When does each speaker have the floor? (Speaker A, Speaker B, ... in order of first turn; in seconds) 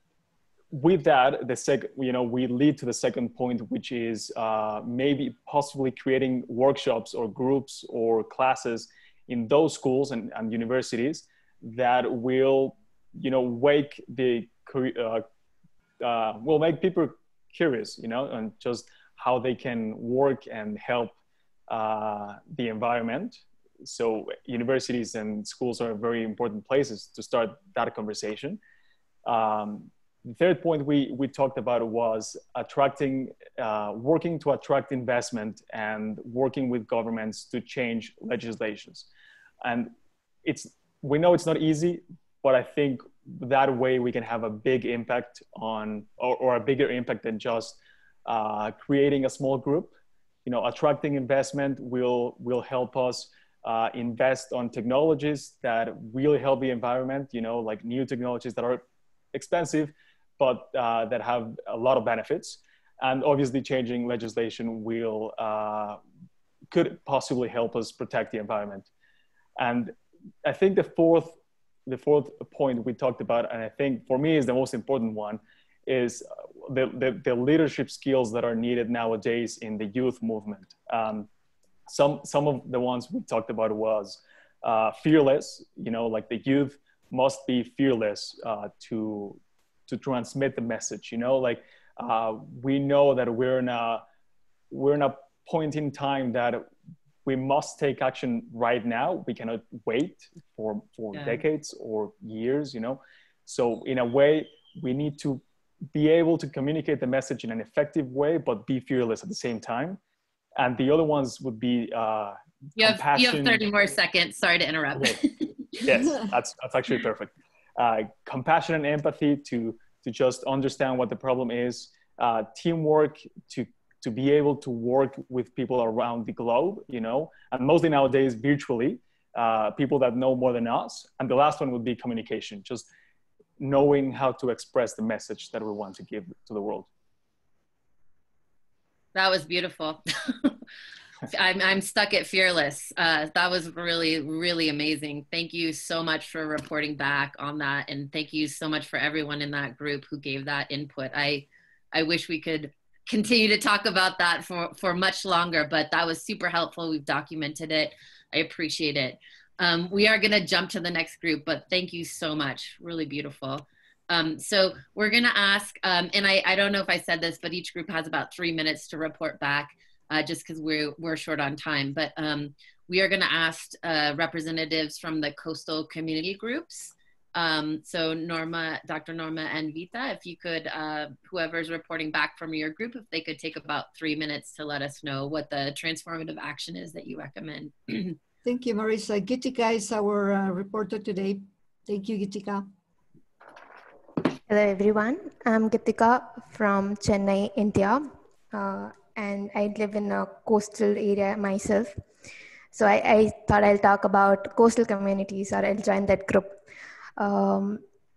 Speaker A: 0.7-15.2, 16.0-21.2, 21.7-28.6, 29.2-39.1, 39.6-39.9, 40.4-49.9, 50.4-66.0, 66.7-68.9, 69.6-81.3, 81.9-94.0, 94.7-96.7, 97.2-110.0, 110.5-113.7, 114.9-115.2, 115.8-132.8, 133.6-136.9
Speaker B: 101.1-101.4, 112.8-115.5, 139.1-140.5, 141.3-188.2
Speaker C: 188.4-192.7
Speaker D: 194.5-201.9, 202.7-206.6, 207.2-207.8